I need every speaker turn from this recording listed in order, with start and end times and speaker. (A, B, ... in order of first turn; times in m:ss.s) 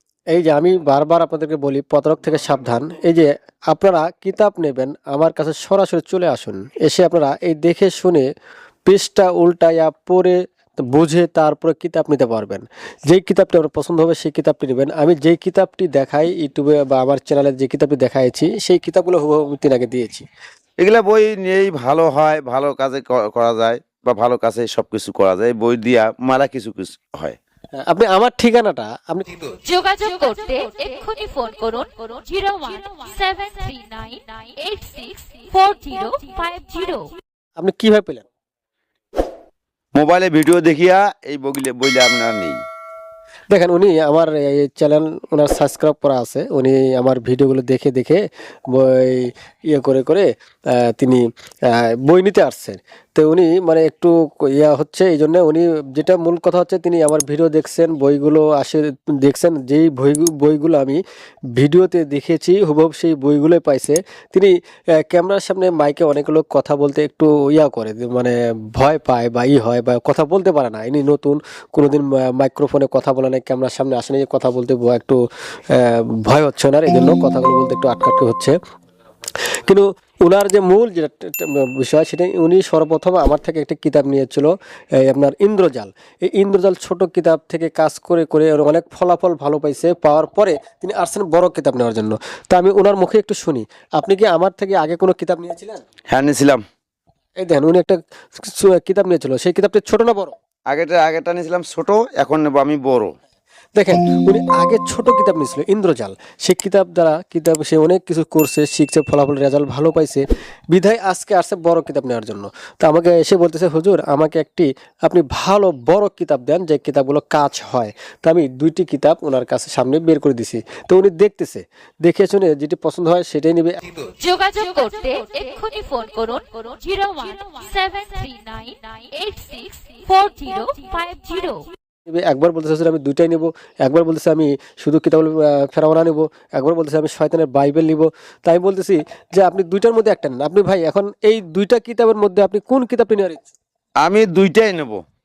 0:00.3-0:08.3 A
0:08.9-0:20.3 A
0:20.8-0:27.4 B
0:27.8-0:29.3 A
0:29.6-0:37.2 C
0:37.6-0:38.2 A
0:40.0-0:42.6 B
0:43.5-1:01.0 A
1:01.6-1:18.6 A
1:19.4-1:35.8 A
1:36.1-1:36.6 B
1:37.4-1:40.4 A
1:40.7-1:43.2 B
1:43.8-2:03.8 A
2:04.0-2:11.7 C
2:12.1-2:23.5 A
2:24.0-2:25.0 B